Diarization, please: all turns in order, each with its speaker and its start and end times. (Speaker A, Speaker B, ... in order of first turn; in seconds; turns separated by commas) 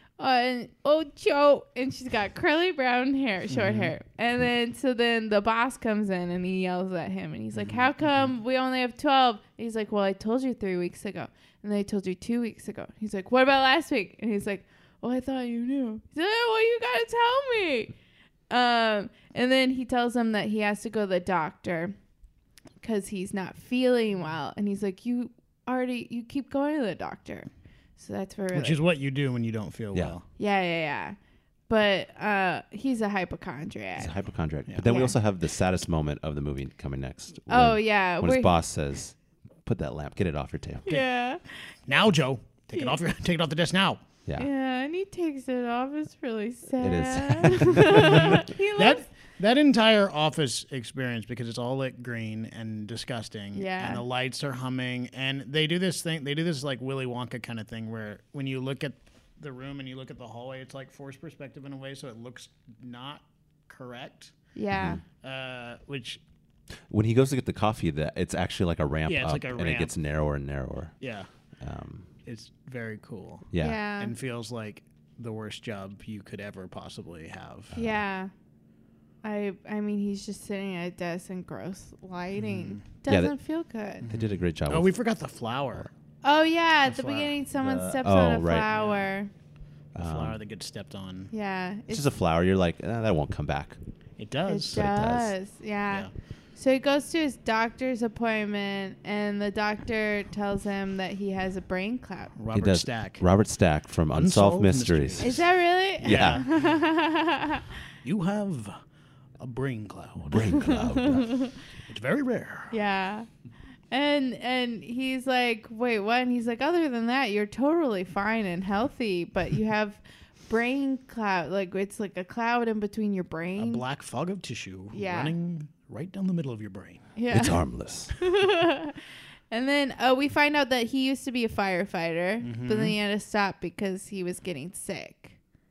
Speaker A: 0.2-17.9, Speaker B: 3.5-3.9, Speaker B: 7.5-8.3, Speaker A: 18.5-21.9, Speaker A: 22.8-28.8, Speaker B: 28.5-30.2, Speaker A: 30.4-31.2, Speaker A: 31.7-34.1, Speaker C: 34.0-40.9, Speaker B: 34.7-34.9, Speaker A: 34.8-35.1, Speaker A: 37.5-38.5, Speaker A: 40.9-41.8, Speaker B: 41.9-44.0, Speaker A: 44.4-49.0, Speaker C: 46.8-48.3, Speaker B: 47.7-64.3, Speaker A: 53.5-54.0, Speaker A: 64.5-65.0, Speaker C: 64.7-65.0, Speaker B: 65.2-66.2, Speaker C: 66.9-70.9, Speaker B: 69.0-69.9, Speaker B: 71.0-71.3, Speaker C: 71.6-72.1, Speaker B: 72.2-77.7, Speaker C: 73.5-73.8, Speaker A: 73.6-74.1, Speaker A: 77.7-78.3, Speaker A: 79.2-84.0, Speaker B: 82.3-82.8, Speaker C: 83.1-83.3, Speaker B: 84.0-85.9, Speaker C: 84.1-84.9, Speaker A: 86.2-89.3, Speaker B: 86.8-87.3, Speaker C: 87.6-88.7, Speaker B: 88.7-89.1, Speaker C: 89.9-90.4, Speaker B: 90.0-91.3, Speaker A: 91.3-92.0, Speaker C: 91.9-93.8, Speaker B: 94.2-94.8, Speaker A: 94.5-102.3, Speaker C: 94.7-95.3, Speaker B: 102.4-103.2, Speaker C: 102.5-105.4, Speaker B: 104.1-105.4, Speaker A: 105.2-107.7, Speaker B: 106.0-106.8, Speaker C: 106.0-106.4, Speaker B: 108.0-108.8, Speaker B: 109.4-110.5, Speaker C: 110.3-111.3, Speaker A: 110.3-111.5, Speaker B: 111.9-112.7, Speaker A: 112.7-113.3, Speaker A: 113.9-123.8, Speaker B: 123.6-127.0, Speaker A: 124.9-125.3, Speaker A: 127.2-135.3, Speaker C: 127.3-128.1, Speaker B: 132.4-133.0